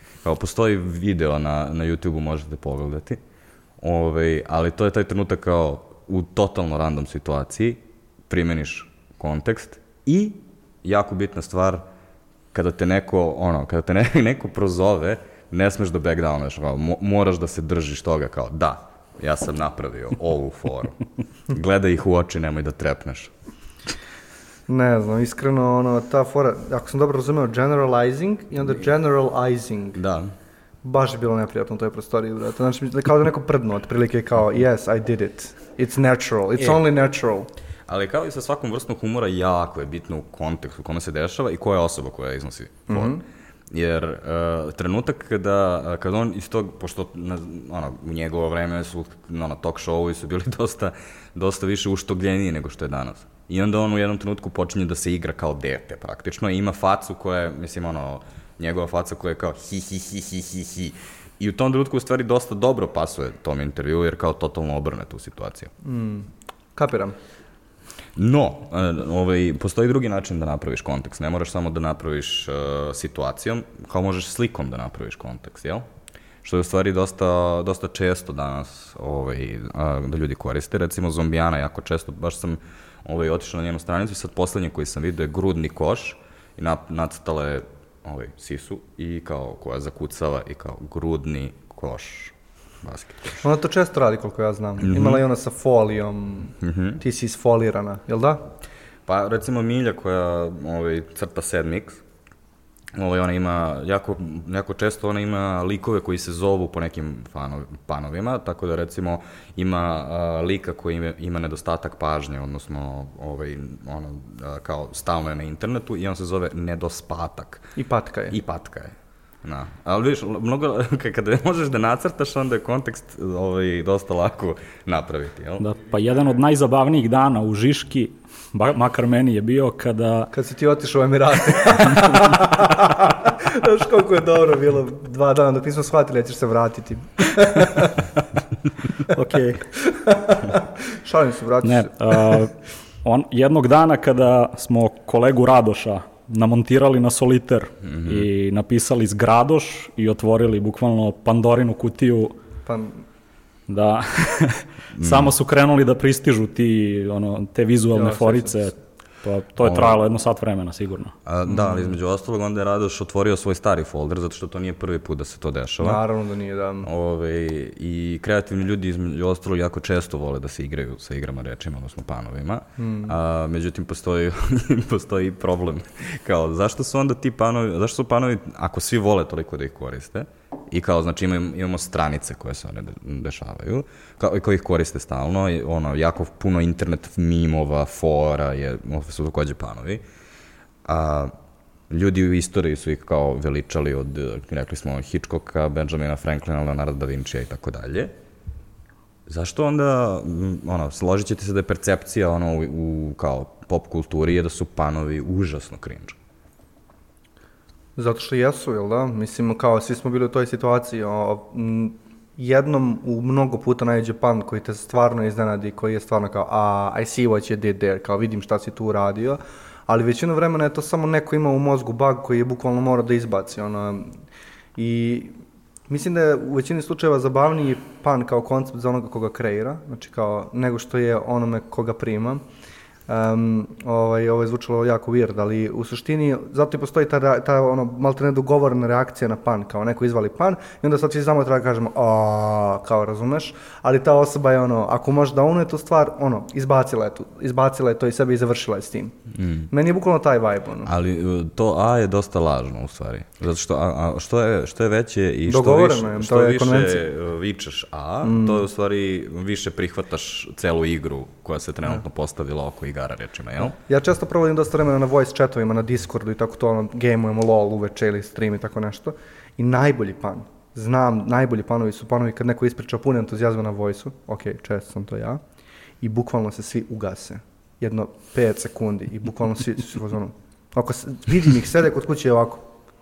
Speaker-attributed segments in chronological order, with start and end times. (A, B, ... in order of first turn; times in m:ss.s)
0:00.2-0:03.2 A
0:03.8-0:11.8 A
0:12.5-0:21.0 A
0:21.5-0:23.3 A
0:24.7-0:30.0 B
0:30.0-0:30.3 A
0:30.8-0:37.5 B
0:37.9-0:43.2 A
0:42.9-0:43.2 B
0:43.7-1:05.7 A
1:05.8-1:07.2 B
1:08.2-1:15.8 A
1:16.4-1:33.4 A
1:33.4-1:38.4 B
1:34.8-1:35.2 A
1:36.6-1:37.0 A
1:39.0-1:42.0 A
1:43.0-1:57.7 A
1:57.8-1:58.4 B
1:58.3-2:05.6 A
2:05.6-2:10.3 C
2:10.3-2:18.1 B
2:19.1-2:19.6 C
2:19.8-2:22.4 B
2:21.6-2:32.3 C
2:27.8-2:28.3 A
2:32.6-2:33.0 B
2:33.7-2:41.1 C
2:35.0-2:35.3 A
2:37.9-2:38.6 B
2:39.6-2:40.0 A
2:41.2-2:46.0 A
2:41.5-2:41.9 B
2:45.8-2:46.9 B
2:46.8-3:10.0 A
2:52.8-2:53.1 B
3:10.8-3:11.3 A
3:11.9-3:18.1 A
3:19.3-3:26.2 A
3:28.0-3:44.2 B
3:44.8-3:45.4 B
3:45.9-3:52.4 B
3:53.1-4:09.2 B
4:09.3-4:09.7 A
4:09.7-4:10.9 B
4:10.8-4:23.8 A
4:15.5-4:17.0 B
4:18.2-4:18.6 B
4:23.6-4:35.4 B
4:36.0-4:42.7 B